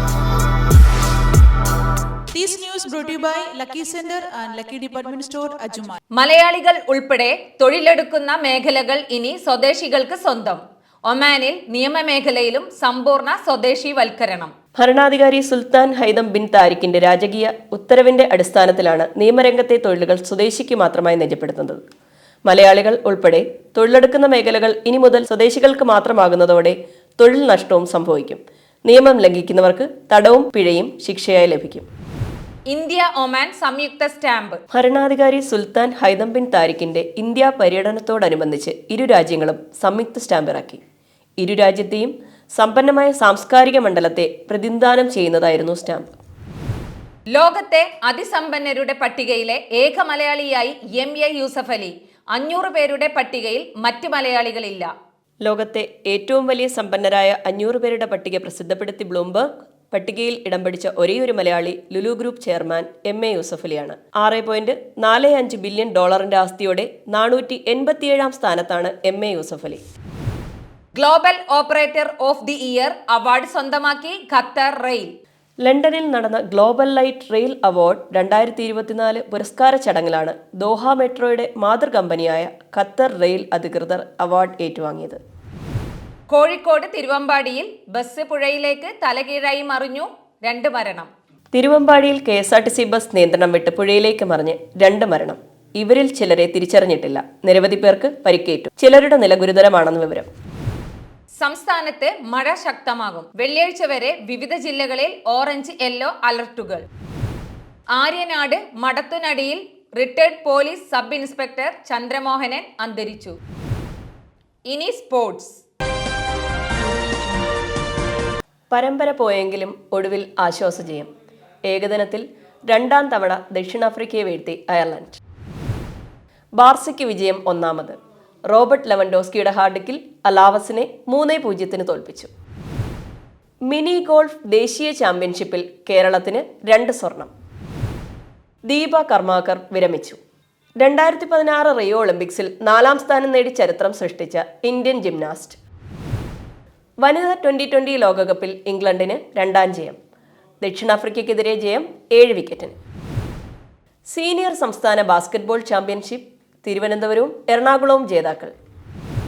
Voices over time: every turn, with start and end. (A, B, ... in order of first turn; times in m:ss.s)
0:02.3-0:06.0 A
0:06.1-0:14.5 B
0:14.8-0:21.8 C
0:22.4-0:31.8 C
0:32.7-0:34.6 B
0:34.7-0:40.8 C
0:41.4-0:46.1 C
0:47.3-0:54.9 B
0:55.4-1:09.8 C
1:10.9-1:15.1 B
1:15.6-1:25.2 C
1:26.3-1:31.1 B
1:31.5-1:40.3 C
1:41.4-1:46.8 B
1:47.9-1:53.4 B
1:54.7-1:55.6 B
1:56.9-1:57.4 A
1:58.7-2:01.1 C
2:01.6-2:05.2 C
2:06.6-2:08.0 C
2:08.5-2:12.3 C
2:13.7-2:17.3 C
2:18.7-2:20.2 C
2:20.8-2:25.6 C
2:27.0-2:30.0 C
2:30.6-2:32.8 C
2:34.1-2:38.5 C